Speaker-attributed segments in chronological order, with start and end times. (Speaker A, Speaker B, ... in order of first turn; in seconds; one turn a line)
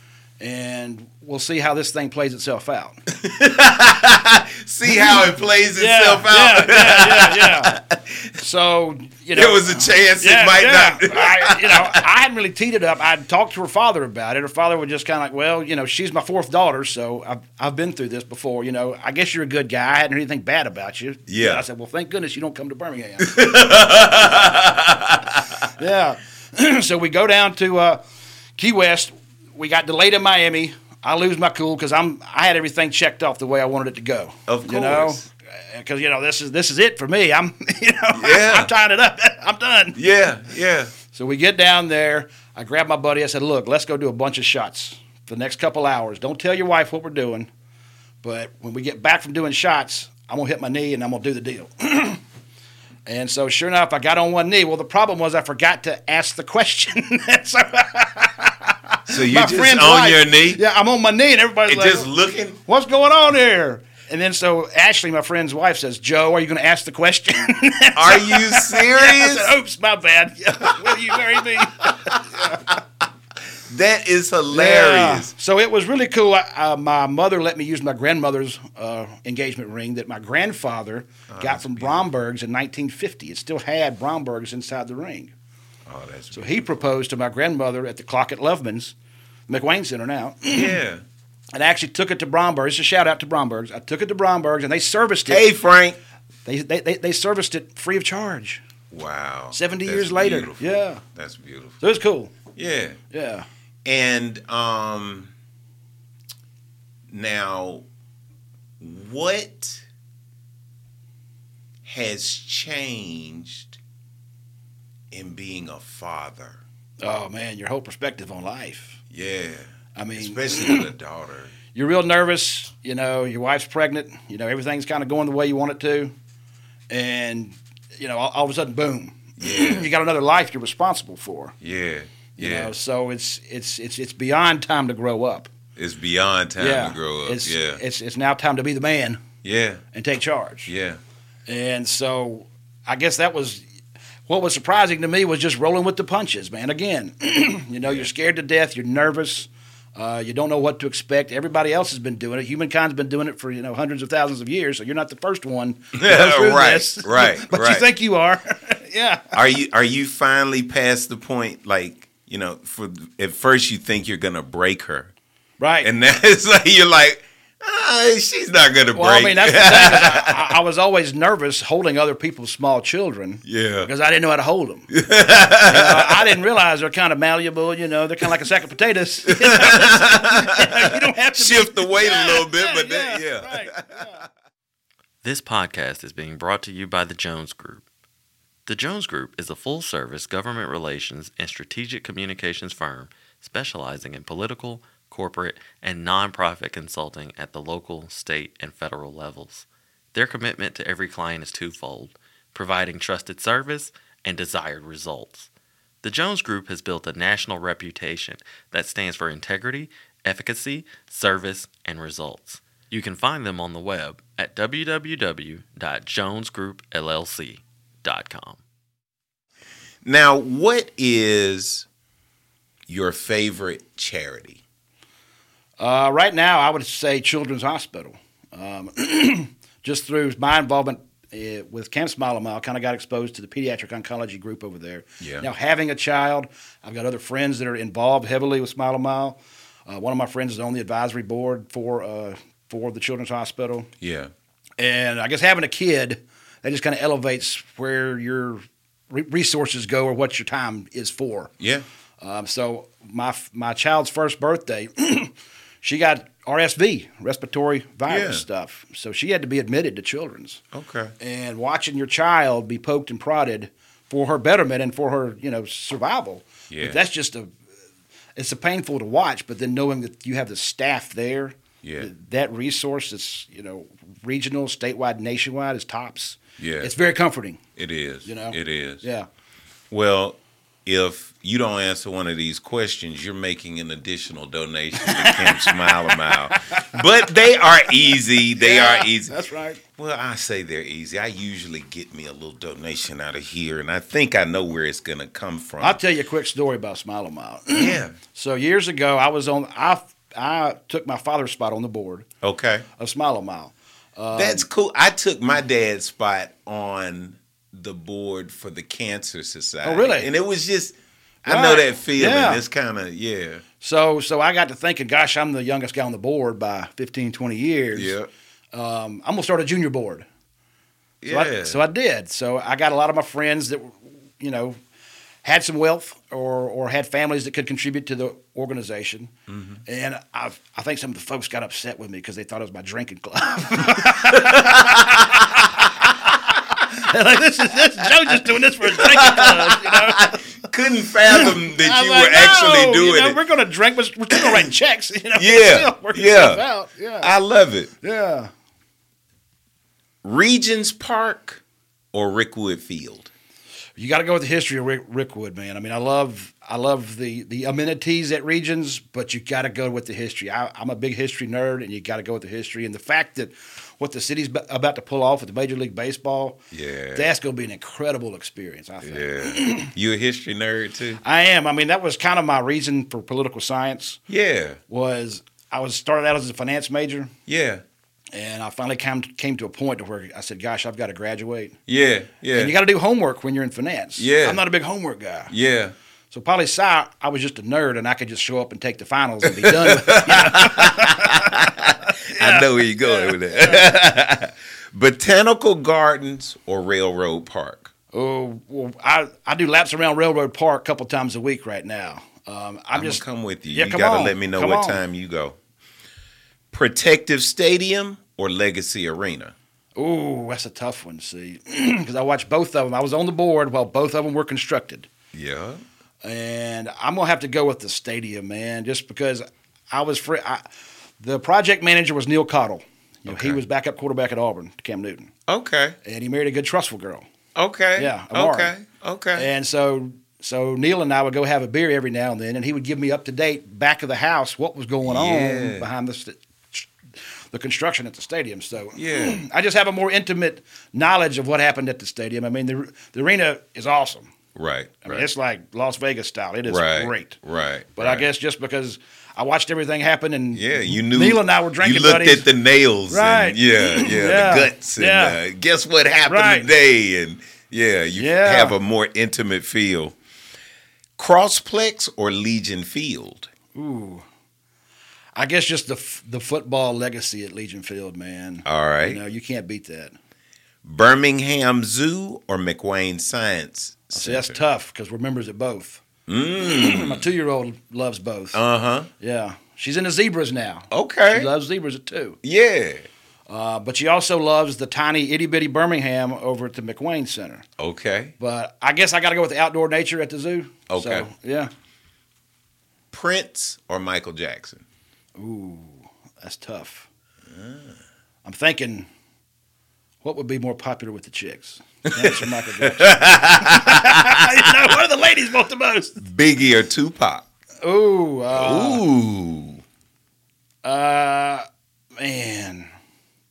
Speaker A: 0.4-3.0
Speaker B: 3.1-8.3
Speaker A: 4.9-5.2
Speaker A: 5.8-7.8
Speaker A: 8.4-23.5
Speaker B: 9.3-12.0
Speaker B: 21.3-21.6
Speaker B: 23.2-25.7
Speaker A: 25.7-28.0
Speaker A: 28.6-40.0
Speaker B: 34.5-35.3
Speaker B: 38.1-38.7
Speaker B: 40.0-40.9
Speaker A: 41.1-47.5
Speaker A: 48.2-52.2
Speaker A: 53.1-62.1
Speaker B: 59.1-60.6
Speaker B: 61.7-62.6
Speaker A: 62.7-72.7
Speaker B: 68.0-69.5
Speaker B: 70.7-72.8
Speaker B: 73.7-75.3
Speaker A: 74.5-85.3
Speaker B: 81.3-82.1
Speaker B: 85.9-86.8
Speaker A: 86.3-89.0
Speaker A: 89.5-90.8
Speaker B: 90.5-91.0
Speaker A: 91.5-95.4
Speaker B: 95.3-96.0
Speaker A: 96.5-98.6
Speaker B: 98.9-101.8
Speaker A: 99.5-101.0
Speaker A: 101.8-102.3
Speaker B: 102.5-103.0
Speaker A: 103.1-103.5
Speaker B: 103.8-105.3
Speaker B: 107.1-107.9
Speaker B: 108.8-109.8
Speaker B: 111.8-113.8
Speaker B: 115.1-116.6
Speaker A: 117.0-119.0
Speaker B: 119.1-121.6
Speaker A: 120.0-120.9
Speaker A: 121.7-126.1
Speaker A: 126.9-131.6
Speaker B: 129.4-129.9
Speaker B: 131.6-132.7
Speaker A: 132.4-135.5
Speaker B: 135.8-137.8
Speaker A: 136.6-139.2
Speaker B: 139.4-139.8
Speaker A: 139.9-140.7
Speaker B: 140.7-141.0
Speaker A: 141.5-143.7
Speaker A: 144.3-159.3
Speaker B: 155.9-157.9
Speaker B: 159.3-165.1
Speaker A: 165.6-165.9
Speaker B: 165.8-170.5
Speaker A: 168.9-174.9
Speaker B: 173.4-173.9
Speaker B: 174.9-176.4
Speaker A: 175.6-184.2
Speaker B: 179.3-184.2
Speaker C: 185.2-187.8
Speaker C: 188.7-205.5
Speaker C: 206.0-218.6
Speaker B: 220.1-221.9
Speaker B: 222.9-224.6
Speaker A: 225.8-243.9
Speaker B: 235.2-235.5
Speaker B: 244.0-244.3
Speaker A: 244.8-251.5
Speaker B: 251.6-251.8
Speaker A: 252.2-260.6
Speaker B: 258.1-258.4
Speaker B: 260.7-261.1
Speaker A: 261.2-267.5
Speaker B: 266.7-267.0
Speaker A: 268.4-277.6
Speaker B: 271.8-272.1
Speaker B: 276.6-276.9
Speaker B: 277.8-279.0
Speaker A: 278.2-279.3
Speaker B: 279.9-289.4
Speaker A: 285.0-287.0
Speaker A: 288.6-289.8
Speaker B: 289.9-296.0
Speaker A: 295.8-302.3
Speaker B: 297.7-298.2
Speaker B: 302.4-302.9
Speaker A: 303.0-304.7
Speaker B: 304.3-313.6
Speaker A: 309.8-310.3
Speaker A: 311.5-312.6
Speaker A: 313.8-318.1
Speaker B: 317.9-318.3
Speaker A: 318.7-320.3
Speaker B: 321.2-321.8
Speaker A: 321.3-324.8
Speaker A: 325.4-329.3
Speaker B: 329.5-329.8
Speaker A: 329.9-340.4
Speaker B: 334.0-336.1
Speaker B: 338.0-343.4
Speaker A: 341.3-347.3
Speaker B: 344.4-344.7
Speaker B: 345.4-346.6
Speaker B: 347.2-347.9
Speaker A: 348.0-348.5
Speaker B: 350.2-351.6
Speaker B: 352.1-353.3
Speaker A: 354.0-366.6
Speaker B: 366.7-367.3
Speaker A: 367.1-369.9
Speaker B: 369.0-371.2
Speaker A: 371.2-374.2
Speaker B: 374.3-374.8
Speaker A: 374.9-377.3
Speaker B: 377.5-377.8
Speaker A: 378.3-381.8
Speaker B: 381.9-382.7
Speaker A: 382.5-385.5
Speaker B: 384.2-384.6
Speaker B: 385.5-385.9
Speaker A: 386.3-393.9
Speaker B: 389.5-397.9
Speaker A: 398.1-405.0
Speaker B: 402.9-405.6
Speaker B: 406.7-409.6
Speaker A: 410.0-415.1
Speaker B: 415.3-415.8
Speaker A: 416.2-420.6
Speaker A: 421.2-425.3
Speaker B: 423.3-423.6
Speaker B: 425.5-426.0
Speaker A: 426.0-427.3
Speaker B: 427.6-429.5
Speaker A: 428.0-428.7
Speaker A: 429.4-436.9
Speaker B: 435.0-435.9
Speaker A: 437.5-444.3
Speaker B: 438.9-439.4
Speaker B: 444.6-445.3
Speaker A: 445.1-447.4
Speaker B: 446.7-448.2
Speaker A: 448.0-452.5
Speaker B: 450.5-460.2
Speaker A: 453.1-455.4
Speaker A: 456.3-456.7
Speaker A: 458.2-458.8
Speaker B: 461.2-463.5
Speaker A: 463.7-464.2
Speaker A: 465.4-470.2
Speaker B: 468.6-469.2
Speaker B: 470.8-474.6
Speaker A: 474.1-476.0
Speaker B: 476.3-477.2
Speaker A: 476.6-478.6
Speaker B: 478.5-479.1
Speaker A: 479.2-482.4
Speaker B: 480.9-481.5
Speaker B: 482.4-483.1
Speaker A: 483.5-487.6
Speaker B: 487.8-488.3
Speaker A: 488.4-491.7
Speaker B: 490.9-491.3
Speaker B: 493.1-494.8
Speaker A: 495.4-497.1
Speaker B: 497.5-498.0
Speaker A: 498.4-499.1
Speaker A: 500.2-506.2
Speaker B: 502.2-504.7
Speaker B: 506.2-507.4
Speaker A: 507.8-509.0
Speaker B: 508.5-509.8
Speaker A: 510.8-511.6
Speaker A: 512.2-512.9